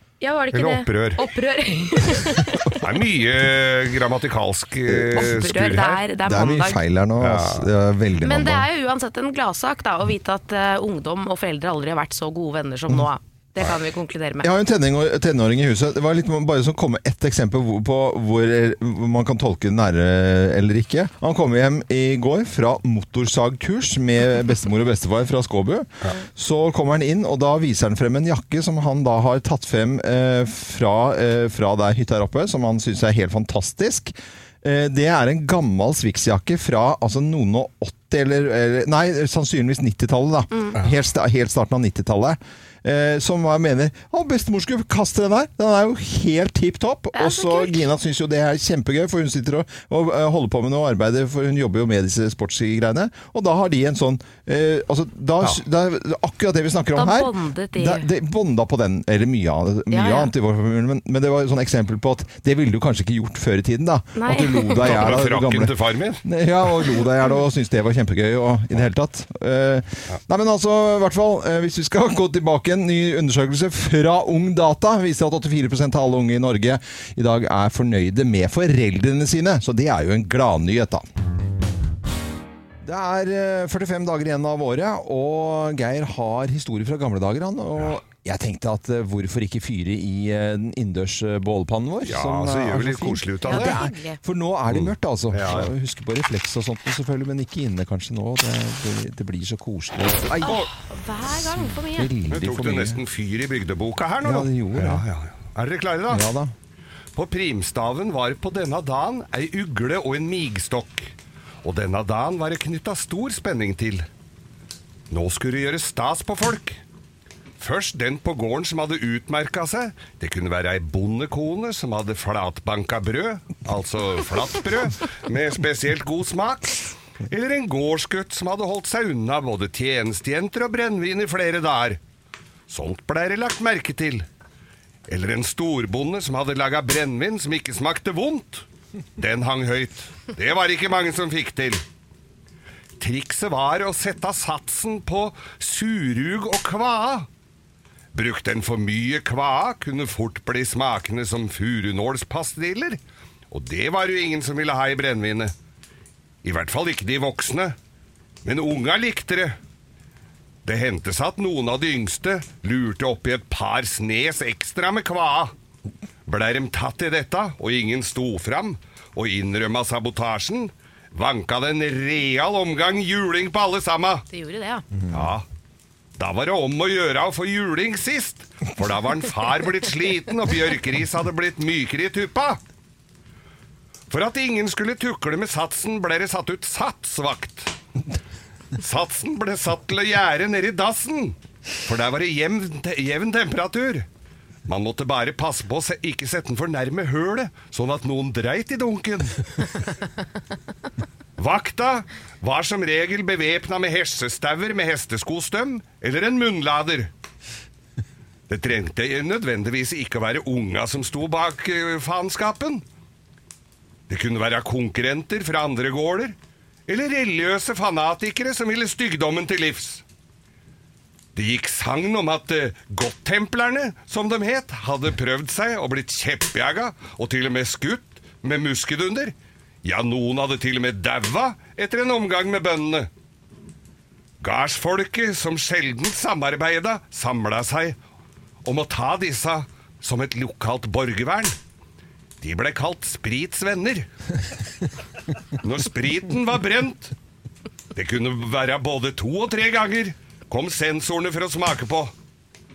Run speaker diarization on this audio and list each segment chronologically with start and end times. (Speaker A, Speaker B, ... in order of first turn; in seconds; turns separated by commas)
Speaker A: 0.2-2.8, Speaker B: 0.5-1.2, Speaker B: 2.7-6.0, Speaker C: 4.9-5.2, Speaker A: 5.1-6.8, Speaker C: 6.2-8.7, Speaker B: 7.2-7.7, Speaker A: 8.2-14.5, Speaker C: 14.4-81.0, Speaker A: 47.1-47.8, Speaker A: 56.9-58.1, Speaker A: 59.9-60.3, Speaker A: 64.2-64.9, Speaker B: 64.8-66.2, Speaker C: 82.8-100.7, Speaker B: 92.0-93.8, Speaker A: 93.4-94.2, Speaker B: 94.7-95.7, Speaker A: 100.4-102.1, Speaker C: 101.4-103.0, Speaker B: 102.3-106.3, Speaker C: 104.2-105.0, Speaker C: 106.1-106.5, Speaker B: 107.1-114.1, Speaker B: 115.1-116.8, Speaker B: 117.6-132.0, Speaker B: 132.7-134.2, Speaker B: 135.1-138.7, Speaker B: 139.2-141.8, Speaker B: 143.0-147.3, Speaker B: 148.1-155.5, Speaker B: 156.4-157.8, Speaker B: 158.4-159.6, Speaker B: 160.6-165.5, Speaker B: 166.2-174.2, Speaker A: 174.3-174.8, Speaker B: 175.1-175.4, Speaker B: 176.2-182.6, Speaker B: 184.1-187.7, Speaker B: 188.7-194.1, Speaker B: 194.7-199.4, Speaker B: 201.4-207.1, Speaker B: 208.5-212.8, Speaker B: 214.1-216.3, Speaker B: 216.9-220.0, Speaker B: 221.3-233.1, Speaker B: 234.4-238.0, Speaker B: 238.6-241.6, Speaker B: 242.4-244.1, Speaker B: 245.6-247.1, Speaker B: 247.9-252.1